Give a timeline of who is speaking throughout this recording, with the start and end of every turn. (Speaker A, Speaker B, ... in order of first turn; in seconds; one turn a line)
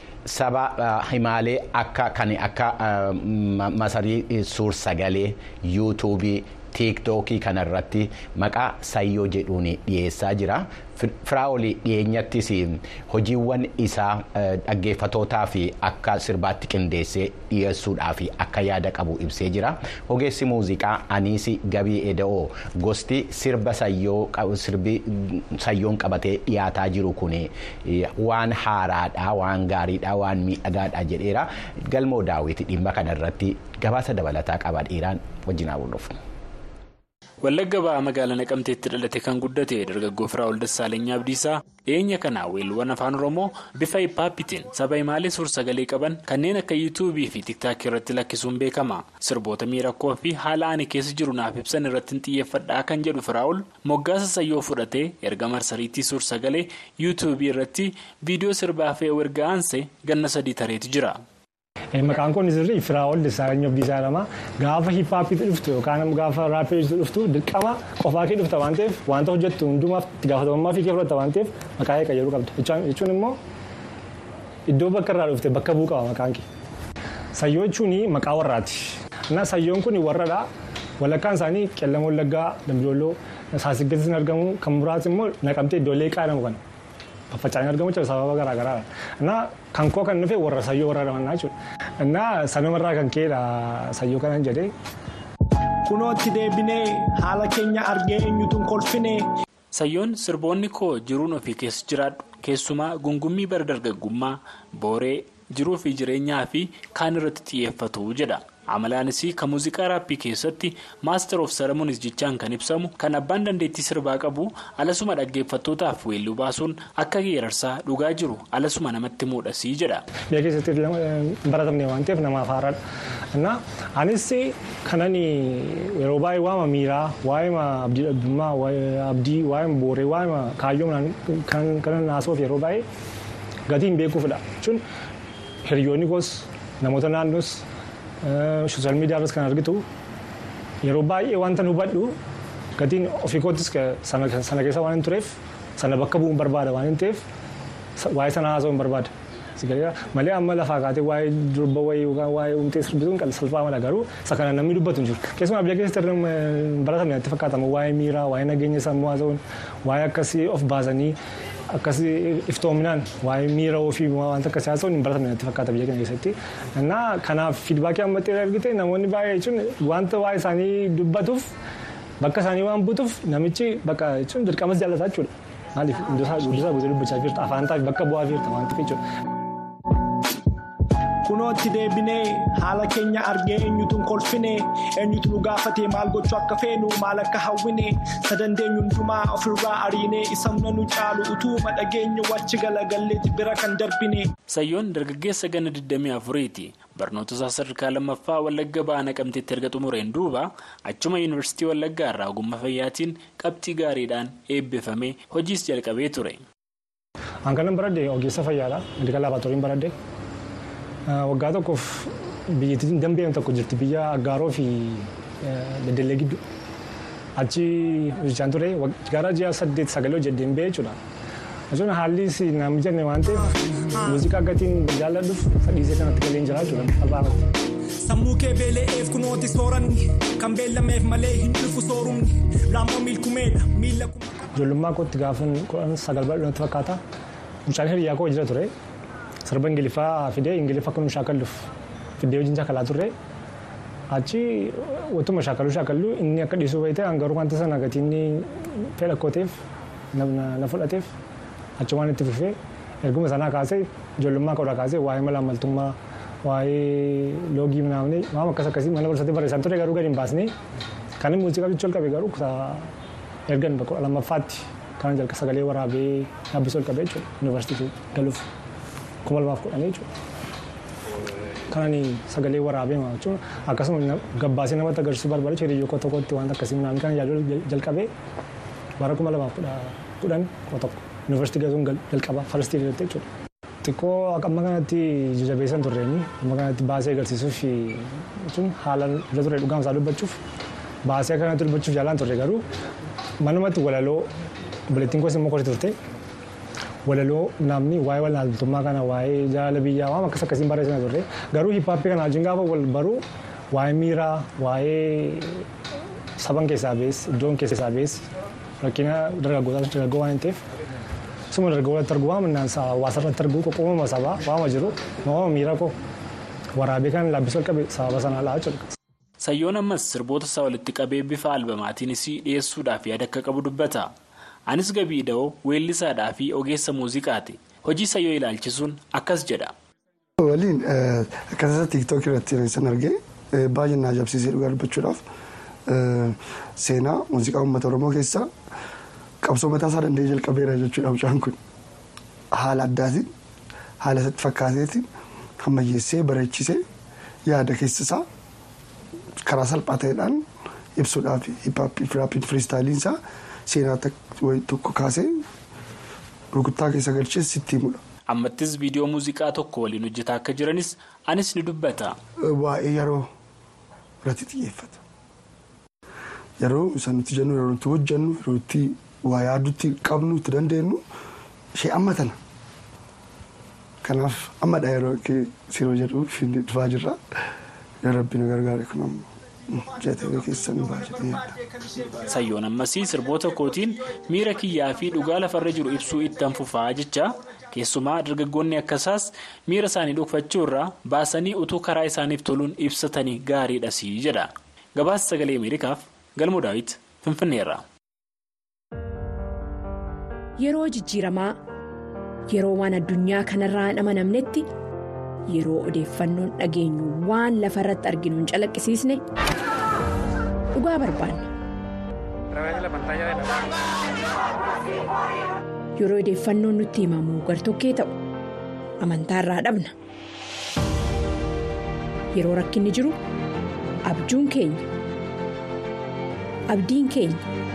Speaker A: 0.2-36.2
Speaker B: 37.4-61.2
Speaker C: 61.9-73.4
Speaker C: 74.7-76.4
Speaker C: 77.3-80.5
Speaker C: 81.0-86.6
Speaker C: 87.3-94.7
Speaker D: 95.8-99.2
Speaker B: 99.7-120.0
Speaker C: 120.3-122.8
Speaker C: 123.3-132.8
Speaker C: 133.7-134.8
Speaker C: 135.6-137.6
Speaker C: 138.2-139.8
Speaker C: 140.8-142.1
Speaker C: 142.8-147.2
Speaker C: 148.0-161.2
Speaker C: 161.7-171.5
Speaker C: 172.2-179.0
Speaker D: 181.2-194.3
Speaker B: 194.5-206.4
Speaker C: 207.4-209.9
Speaker C: 211.1-216.4
Speaker C: 217.4-220.9
Speaker C: 221.7-223.4
Speaker C: 224.0-227.4
Speaker D: 228.0-234.4
Speaker C: 234.6-237.0
Speaker C: 237.7-238.7
Speaker C: 239.4-241.6
Speaker C: 242.2-243.1
Speaker C: 244.1-249.6
Speaker C: 250.1-251.1
Speaker C: 251.8-260.5
Speaker C: 261.2-262.9
Speaker C: 263.5-268.4
Speaker C: 269.2-270.1
Speaker C: 271.7-278.1
Speaker C: 279.0-283.2
Speaker C: 283.8-290.4
Speaker C: 291.0-292.6
Speaker C: 293.4-294.3
Speaker C: 294.9-295.9
Speaker C: 297.0-305.6
Speaker C: 306.4-308.2
Speaker C: 308.8-310.6
Speaker C: 311.5-315.9
Speaker C: 316.8-318.8
Speaker B: 319.4-324.1
Speaker B: 324.7-329.7
Speaker E: 330.4-335.2
Speaker E: 335.9-338.5
Speaker E: 339.4-341.6
Speaker E: 342.5-343.3
Speaker E: 344.0-345.1
Speaker E: 345.6-346.8
Speaker E: 347.4-348.2
Speaker E: 349.4-350.4
Speaker E: 350.9-355.4
Speaker E: 356.5-358.0
Speaker B: 358.3-362.1
Speaker E: 362.4-363.3
Speaker E: 364.2-365.0
Speaker E: 366.6-371.0
Speaker E: 371.7-372.4
Speaker E: 374.0-377.2
Speaker E: 378.0-381.5
Speaker B: 382.2-397.8
Speaker F: 400.6-401.6
Speaker F: 402.5-404.6
Speaker F: 405.5-409.2
Speaker F: 410.7-411.5
Speaker F: 412.7-413.2
Speaker F: 416.0-418.1
Speaker F: 419.0-419.9
Speaker F: 422.3-423.1
Speaker F: 424.0-424.8
Speaker F: 426.7-427.4